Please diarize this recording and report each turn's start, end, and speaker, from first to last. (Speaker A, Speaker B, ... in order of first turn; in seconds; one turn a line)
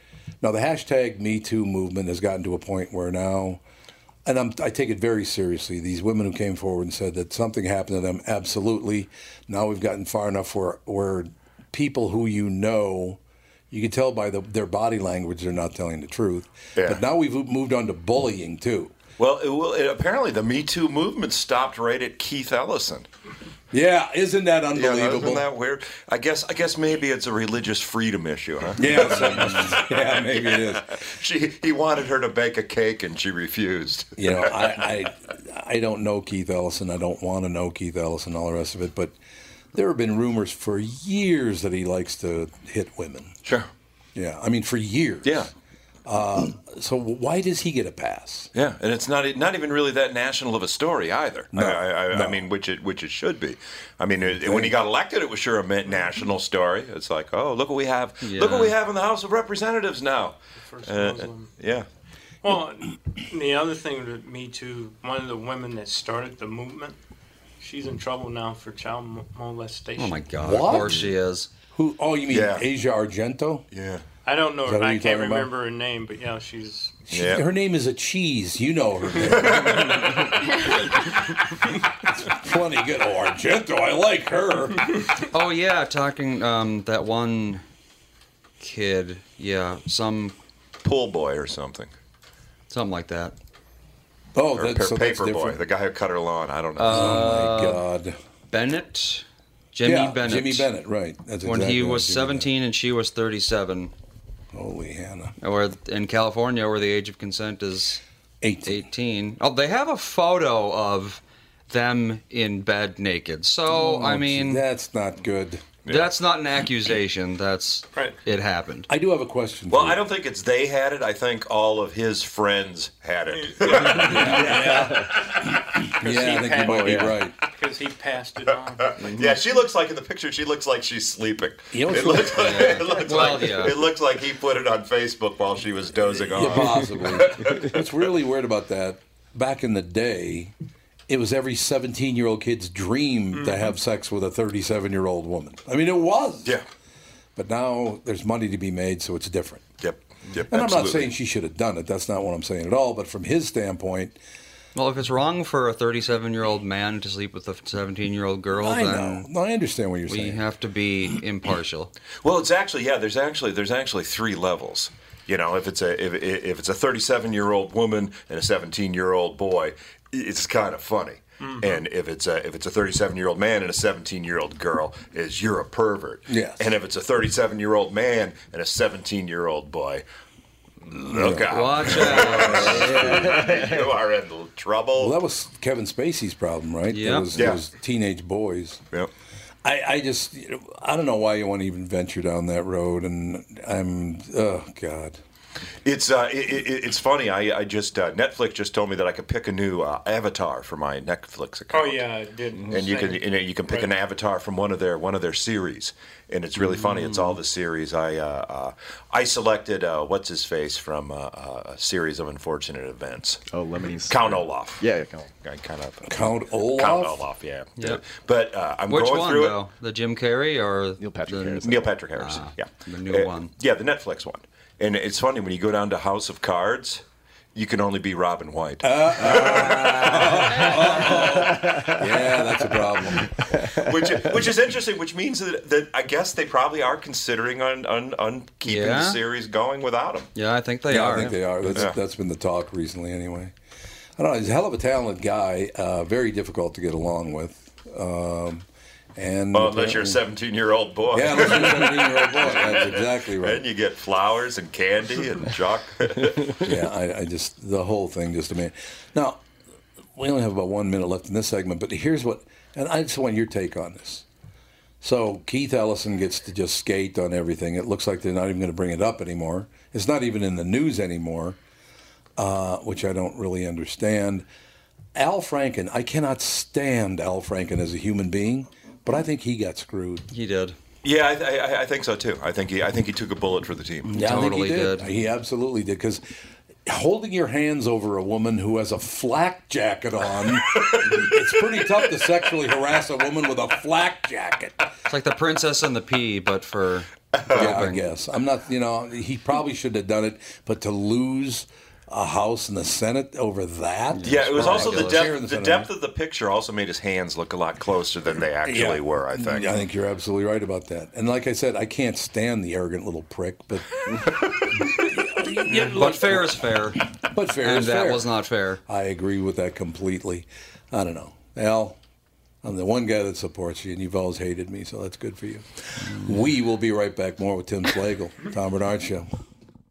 Speaker A: 0.4-3.6
Speaker A: 4.2-13.2
Speaker A: 13.7-18.9
Speaker B: 16.8-17.0
Speaker B: 19.2-23.1
Speaker A: 23.7-25.5
Speaker B: 24.8-34.9
Speaker A: 28.8-31.0
Speaker A: 34.2-39.1
Speaker A: 39.7-43.4
Speaker A: 44.1-45.5
Speaker B: 45.2-45.5
Speaker A: 46.1-48.5
Speaker B: 48.5-61.9
Speaker A: 51.5-52.5
Speaker A: 54.4-54.7
Speaker C: 58.2-58.7
Speaker D: 60.6-61.5
Speaker D: 62.4-67.0
Speaker D: 67.6-70.2
Speaker C: 70.0-71.5
Speaker A: 70.4-71.1
Speaker A: 71.7-73.7
Speaker B: 72.3-72.7
Speaker B: 73.7-74.0
Speaker D: 74.2-77.0
Speaker A: 74.7-75.5
Speaker A: 77.1-80.4
Speaker B: 77.1-77.5
Speaker B: 79.2-80.2
Speaker A: 82.1-84.9
Speaker C: 85.3-87.6
Speaker C: 88.6-90.3
Speaker B: 90.8-91.9
Speaker C: 92.7-93.3
Speaker A: 94.3-95.6
Speaker B: 94.5-97.3
Speaker C: 96.8-97.8
Speaker A: 96.9-98.2
Speaker C: 98.5-100.7
Speaker A: 99.8-102.5
Speaker C: 101.4-103.9
Speaker A: 104.5-105.3
Speaker C: 105.4-108.0
Speaker A: 108.4-108.8
Speaker C: 108.7-114.6
Speaker A: 113.7-115.7
Speaker B: 115.8-116.2
Speaker C: 115.9-118.9
Speaker A: 118.9-120.0
Speaker B: 119.7-125.0
Speaker D: 123.3-124.0
Speaker A: 123.9-127.4
Speaker E: 124.4-125.2
Speaker D: 126.0-129.0
Speaker E: 126.6-127.2
Speaker B: 128.8-137.9
Speaker A: 131.7-132.8
Speaker C: 132.3-133.9
Speaker A: 136.3-140.5
Speaker A: 141.1-146.5
Speaker D: 143.4-143.7
Speaker A: 147.4-149.6
Speaker B: 149.8-151.1
Speaker A: 150.5-154.2
Speaker C: 154.7-159.3
Speaker A: 158.6-160.4
Speaker C: 160.1-161.9
Speaker B: 162.2-180.0
Speaker D: 171.4-171.8
Speaker A: 176.3-176.7
Speaker B: 180.9-185.2
Speaker A: 181.0-183.5
Speaker C: 181.5-183.2
Speaker E: 183.4-183.9
Speaker A: 185.0-188.8
Speaker C: 186.9-187.5
Speaker B: 187.3-187.6
Speaker A: 189.6-195.2
Speaker B: 195.8-202.1
Speaker D: 201.7-203.9
Speaker B: 202.7-213.4
Speaker E: 213.5-215.3
Speaker B: 214.1-214.9
Speaker B: 215.4-219.6
Speaker A: 216.1-217.2
Speaker C: 218.9-223.5
Speaker E: 221.0-221.9
Speaker B: 221.6-231.2
Speaker A: 228.8-233.6
Speaker C: 229.6-230.5
Speaker E: 231.4-232.7
Speaker B: 233.6-240.3
Speaker C: 238.7-239.2
Speaker C: 240.3-241.7
Speaker A: 240.9-243.5
Speaker B: 241.7-242.0
Speaker A: 244.2-250.2
Speaker B: 249.5-256.7
Speaker A: 251.1-253.6
Speaker A: 256.6-259.4
Speaker A: 260.2-264.2
Speaker A: 265.0-271.6
Speaker A: 272.4-274.5
Speaker A: 275.2-280.3
Speaker C: 280.3-280.8
Speaker B: 281.0-284.2
Speaker A: 284.1-286.2
Speaker C: 284.1-285.1
Speaker A: 286.9-294.9
Speaker B: 290.8-291.4
Speaker C: 295.1-298.1
Speaker B: 297.4-297.8
Speaker A: 297.5-305.9
Speaker C: 304.1-305.3
Speaker B: 304.2-309.9
Speaker A: 308.6-314.1
Speaker A: 314.7-316.7
Speaker C: 315.7-317.0
Speaker A: 317.3-318.3
Speaker C: 317.6-318.8
Speaker A: 318.9-322.0
Speaker A: 322.6-329.3